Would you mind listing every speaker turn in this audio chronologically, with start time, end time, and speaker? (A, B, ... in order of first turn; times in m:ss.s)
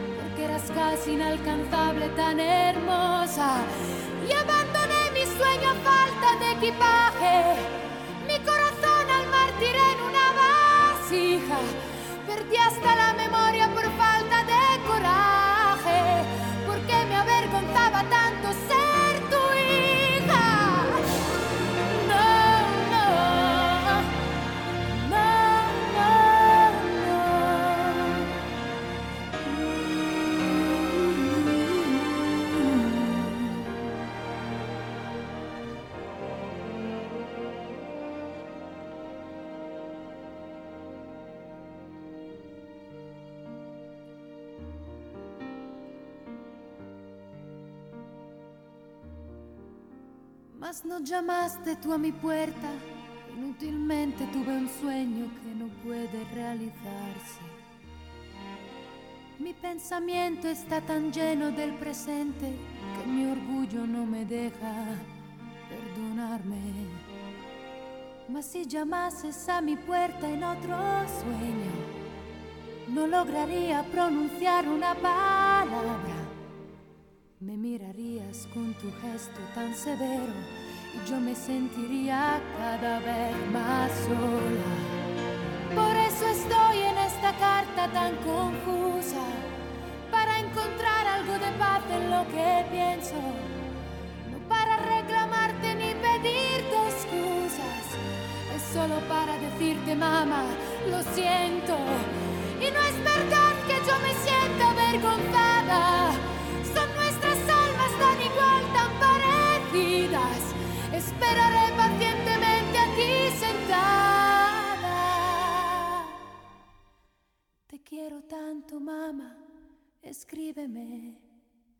0:00.1-0:21.1 A
0:21.7-0:24.3 A
0:24.8-0:28.3 A
0:30.9-0:33.6 A
0:50.5-0:57.6 A
0:59.4-1:05.1 A
1:05.7-1:07.0 A
1:08.3-1:11.9 A
1:12.9-1:16.4 A
1:17.4-1:25.0 A
1:25.7-1:29.5 A
1:30.1-1:33.6 A
1:34.2-1:56.2 A
1:57.7-1:59.4 A
2:00.0-2:01.3 A